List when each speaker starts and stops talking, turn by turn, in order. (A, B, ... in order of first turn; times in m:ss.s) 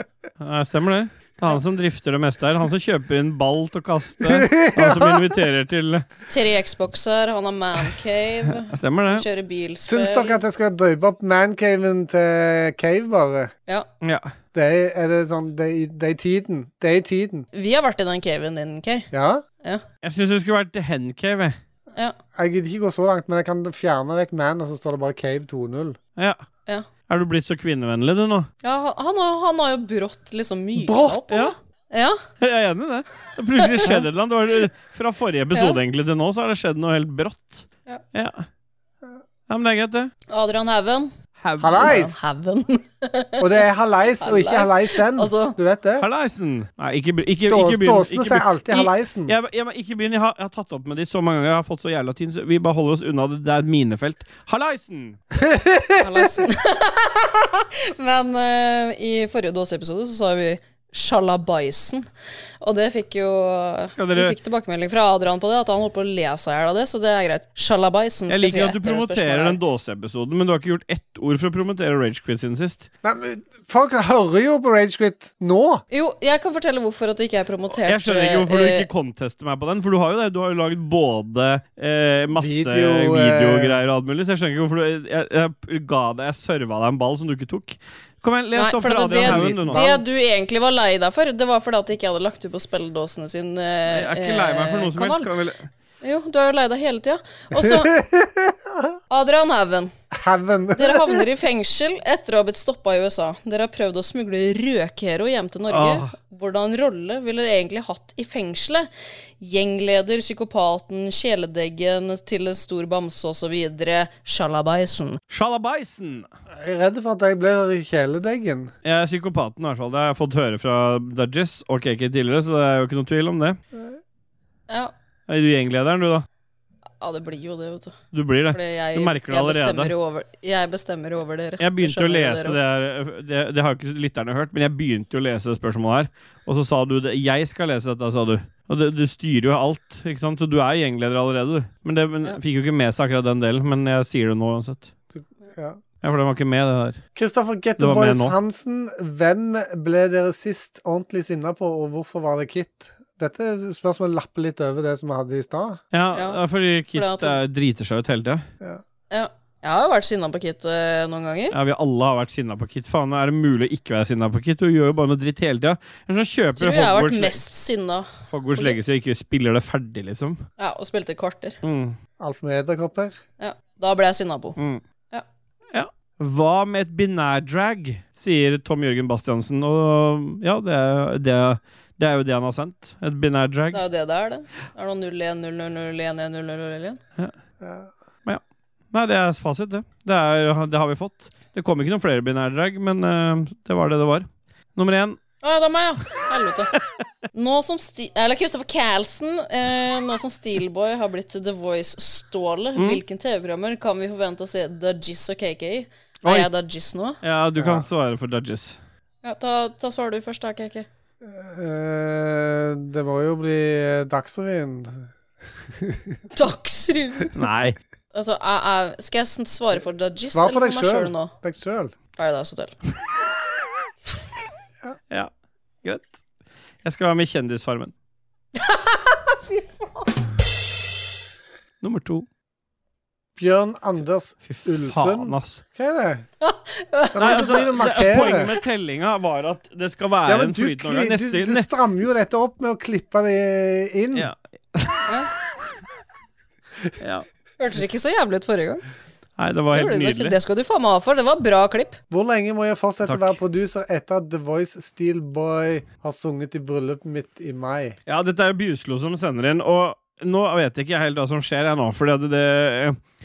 0:00.4-0:06.0 A
0:04.2-0:05.4 B
0:06.3-0:10.4 C
0:08.6-0:09.2 A
0:09.8-0:13.5 B
0:14.0-0:14.3 A
0:14.5-0:17.5 B
0:17.5-0:19.1 C
0:19.1-0:19.4 B
0:20.0-0:21.6 A
0:22.3-0:26.0 B
0:26.2-0:26.4 A
0:27.1-0:28.5 A
0:28.6-0:32.2 C
0:30.8-0:31.4 B
0:31.3-0:31.5 A
0:32.4-0:38.5 A
0:33.6-0:33.9 C
0:35.5-0:35.8 C
0:39.5-0:40.1 A
0:40.3-0:41.1 C
0:41.4-0:42.0 A
0:41.6-0:42.3 B
0:41.8-0:43.5 C
0:43.4-0:46.1 B
0:44.2-0:45.6 C
0:46.0-0:55.2 A
0:47.5-0:49.4 B
0:55.4-0:56.3 B
0:56.0-1:02.0 C
1:02.6-1:09.6 C
1:04.0-1:04.4 A
1:08.3-1:12.9 A
1:13.0-1:15.8 B
1:15.9-1:18.9 C
1:17.8-1:29.9 A
1:22.4-1:23.8 B
1:28.5-1:35.3 C
1:29.1-1:30.0 B
1:33.9-1:35.7 A
1:36.0-1:37.9 C
1:37.5-1:39.0 B
1:39.1-1:39.9 C
1:40.1-1:41.2 B
1:40.8-1:48.9 C
1:45.7-1:46.1 A
1:49.4-1:55.2 C
1:55.3-1:56.3 A
1:56.5-1:58.7 B
1:58.8-2:03.6 A
2:05.3-2:06.2 A
2:07.0-2:08.0 C
2:08.1-2:09.9 A
2:08.5-2:12.6 C
2:11.6-2:24.9 A
2:25.2-2:25.8 B
2:26.0-2:27.0 A
2:27.1-2:35.8 B
2:27.8-2:28.4 A
2:35.9-2:38.4 A
2:36.1-2:36.4 C
2:36.9-2:37.4 C
2:39.1-2:41.5 C
2:41.5-2:47.4 A
2:46.6-2:48.9 C
2:48.3-2:50.4 A
2:50.6-2:51.6 C
2:51.6-2:52.0 A
2:52.2-2:53.2 B
2:53.4-2:54.6 C
2:54.6-2:54.8 A
2:55.7-3:03.8 A
3:03.7-3:07.0 C
3:07.6-3:07.9 B
3:08.9-3:15.2 A
3:15.4-3:16.7 C
3:17.3-3:27.2 C
3:26.2-3:26.5 A
3:27.2-3:28.8 A
3:27.6-3:27.8 B
3:29.2-3:30.9 C
3:31.2-3:35.1 B
3:35.7-3:36.2 B
3:36.3-3:37.3 C
3:37.3-3:37.8 A
3:38.1-3:41.3 C
3:40.2-3:41.9 B
3:42.2-3:42.8 C
3:45.8-3:46.1 A
3:46.8-3:47.9 A
3:48.5-3:50.1 C
3:51.8-3:52.2 A
3:53.4-3:56.2 B
3:54.4-3:55.6 A
3:56.4-3:58.3 C
3:57.1-3:58.5 B
3:57.2-4:01.7 A
4:00.2-4:04.3 B
4:04.1-4:05.1 A
4:07.0-4:07.2 A
4:07.6-4:08.8 C
4:09.4-4:10.4 A
4:09.7-4:12.0 C
4:12.1-4:18.0 B
4:13.0-4:13.4 A
4:18.1-4:23.0 A